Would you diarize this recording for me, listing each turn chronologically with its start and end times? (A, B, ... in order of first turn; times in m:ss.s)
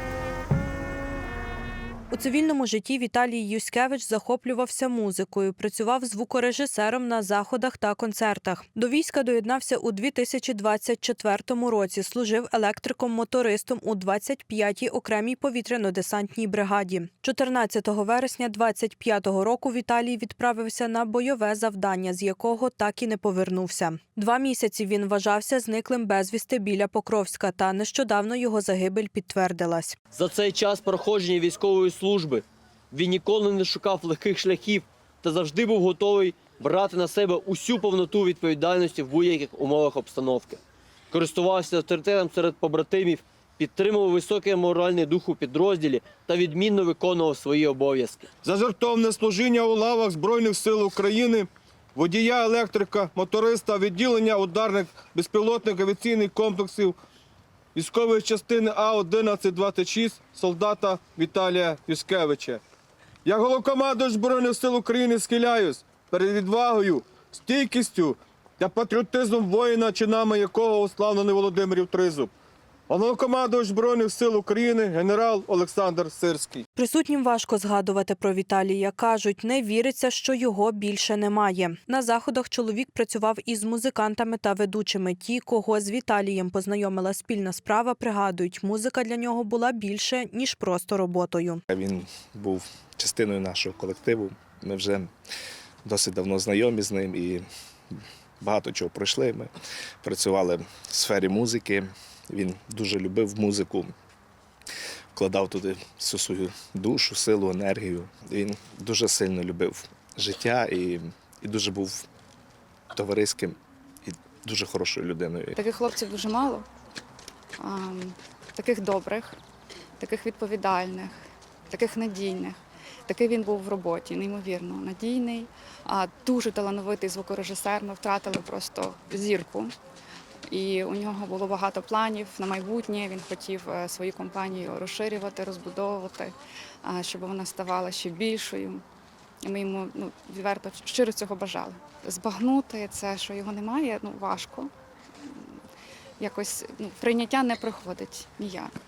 0:02.1-0:30.0 A
0:30.1-0:40.6 B
0:41.1-0:48.3 B
0:48.4-0:57.0 C
0:57.8-1:02.6 C
1:03.2-1:12.3 C
1:12.9-1:16.6 C
1:16.8-1:31.6 A
1:31.7-1:35.1 D
1:35.8-1:39.5 D
1:40.0-1:43.9 D
1:45.1-1:52.1 D
1:52.9-1:55.6 D
1:55.6-1:56.7 E
1:57.6-1:59.4 E
2:00.0-2:09.7 E
2:10.5-2:18.8 E
2:19.4-2:24.7 E
2:26.2-2:28.7 E